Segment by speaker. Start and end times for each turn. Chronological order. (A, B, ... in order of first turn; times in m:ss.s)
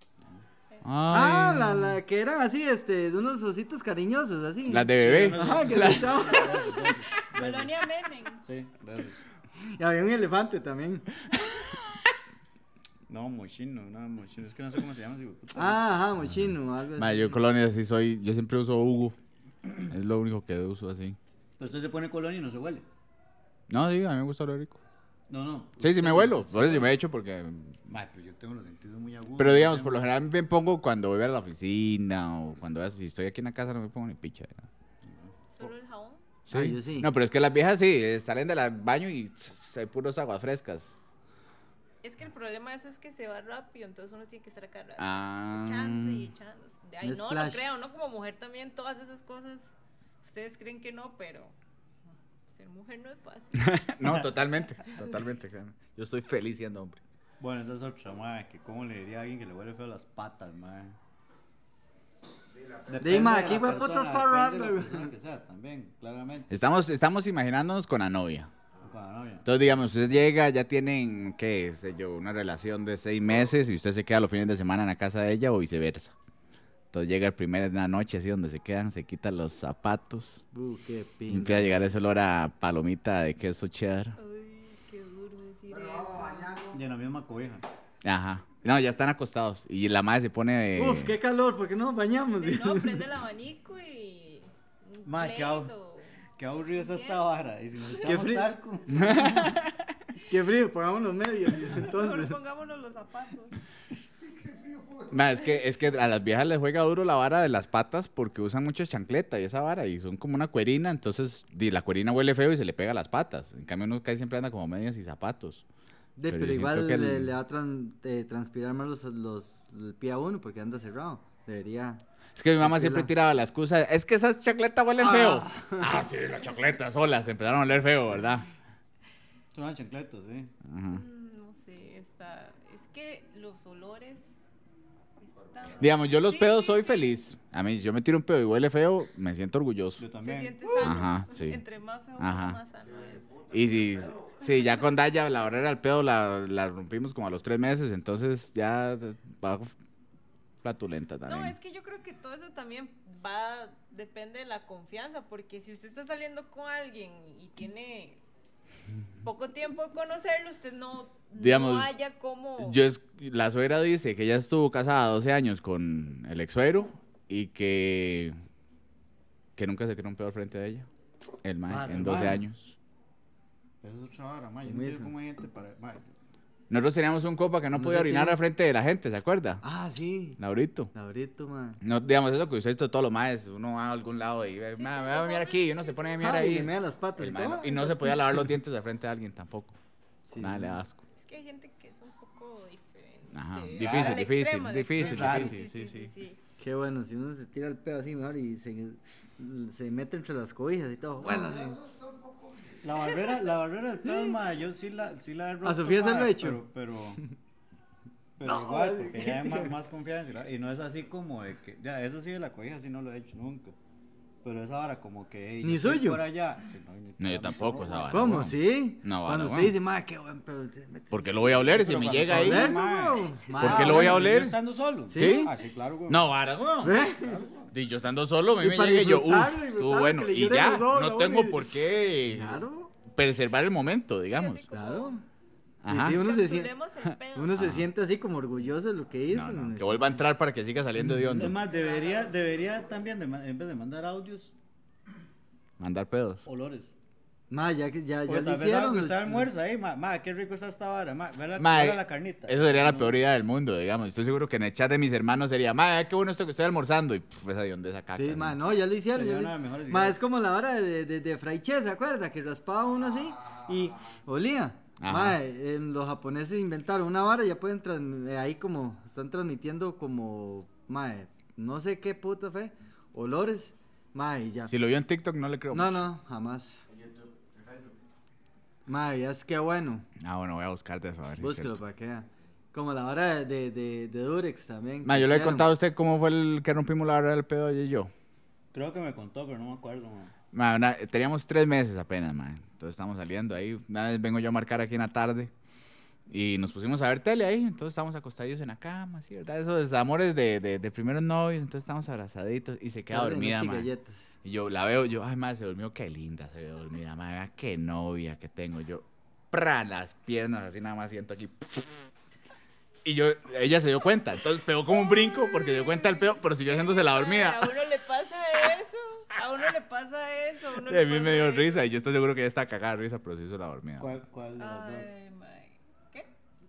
0:00.8-0:02.0 A
0:01.1-0:06.8 B
0:04.7-0:06.4 A
0:04.9-0:07.9 C
0:07.2-0:08.4 D
0:08.4-0:09.2 C
0:09.6-0:11.1 B
0:13.1-0:15.8 C
0:15.5-0:17.4 B
0:16.3-0:19.2 A
0:19.8-0:21.2 A
0:21.6-0:22.9 C
0:23.7-0:24.8 A
0:25.3-0:26.9 C
0:25.8-0:27.9 A
0:27.9-0:30.0 C
0:29.4-0:34.7 A
0:35.0-0:35.7 C
0:35.5-0:36.2 D
0:36.5-0:40.9 A
0:36.5-0:37.1 B
0:42.0-0:51.6 D
0:45.0-0:46.3 A
0:47.0-0:47.6 B
0:52.5-0:53.9 D
0:53.6-0:57.0 A
0:57.4-1:01.0 C
1:02.8-1:06.5 C
1:03.0-1:05.1 B
1:06.5-1:08.5 A
1:08.8-1:09.5 C
1:09.4-1:16.1 A
1:16.9-1:20.4 A
1:20.5-1:21.9 B
1:21.3-1:24.2 A
1:24.2-1:26.7 D
1:26.7-1:27.6 C
1:28.0-1:31.2 A
1:30.8-1:33.1 B
1:32.4-1:36.2 D
1:35.1-1:35.7 C
1:36.4-1:39.6 C
1:36.7-1:37.3 D
1:38.0-1:38.5 B
1:38.9-1:39.8 A
1:40.3-1:42.4 B
1:41.7-1:43.6 D
1:45.1-1:55.6 A
1:56.2-2:02.0 B
1:56.3-1:57.3 A
2:02.4-2:08.5 A
2:02.6-2:03.1 B
2:05.0-2:06.0 B
2:09.5-2:10.5 C
2:10.6-2:11.0 A
2:10.9-2:14.5 D
2:15.2-2:17.1 D
2:15.8-2:20.0 A
2:20.0-2:20.9 C
2:20.2-2:23.5 D
2:20.8-2:21.6 A
2:22.2-2:22.6 A
2:23.5-2:29.7 A
2:30.6-2:31.6 A
2:31.3-2:38.2 D
2:39.2-2:42.8 D
2:41.4-2:42.0 A
2:42.6-2:48.4 A
2:49.6-2:50.9 A
2:51.4-2:52.8 A
2:51.7-2:52.4 B
2:53.8-2:56.1 C
2:54.6-2:55.1 B
2:56.7-2:59.6 A
2:57.7-2:58.4 B
2:59.6-3:00.4 B
3:00.4-3:00.9 A
3:00.9-3:01.8 B
3:01.8-3:09.8 A
3:04.7-3:06.5 D
3:06.2-3:08.5 B
3:10.3-3:10.8 B
3:10.4-3:11.0 A
3:11.2-3:16.4 D
3:13.3-3:16.1 A
3:13.8-3:14.2 C
3:15.0-3:15.6 C
3:16.6-3:21.9 B
3:22.8-3:27.2 C
3:25.6-3:26.6 B
3:28.4-3:33.8 C
3:28.4-3:29.8 B
3:34.4-3:38.4 C
3:35.6-3:36.2 B
3:37.2-3:39.8 A
3:38.1-3:44.4 B
3:41.1-3:42.8 A
3:41.6-3:46.3 C
3:43.6-3:44.6 A
3:45.1-3:45.5 B
3:45.1-3:45.5 A
3:46.1-3:47.1 A
3:46.8-3:47.4 B
3:46.9-3:47.7 C
3:47.7-3:54.7 A
3:48.6-3:52.9 B
3:54.3-3:55.2 D
3:54.7-3:55.2 B
3:55.8-3:56.3 A
3:55.9-3:56.7 B
3:56.0-3:57.6 D
3:57.3-4:00.2 B
3:57.6-3:57.9 A
3:59.3-4:01.6 A
4:01.3-4:04.5 C
4:05.8-4:06.4 A
4:06.4-4:06.9 C
4:07.5-4:09.5 B
4:08.3-4:13.2 C
4:11.6-4:18.6 A
4:18.1-4:34.7 B
4:19.1-4:20.3 C
4:25.0-4:25.4 A
4:34.7-4:36.1 A
4:35.7-4:36.9 B
4:38.9-4:40.1 B
4:40.2-4:41.8 A
4:41.4-4:45.7 B
4:45.0-4:48.1 A
4:48.7-4:50.3 C
4:50.5-4:55.5 A
4:56.3-5:03.9 A
5:03.1-5:04.4 B
5:04.4-5:12.1 A
5:13.0-5:17.7 A
5:14.9-5:21.8 D
5:20.8-5:24.2 A
5:24.0-5:25.2 C
5:24.6-5:26.3 D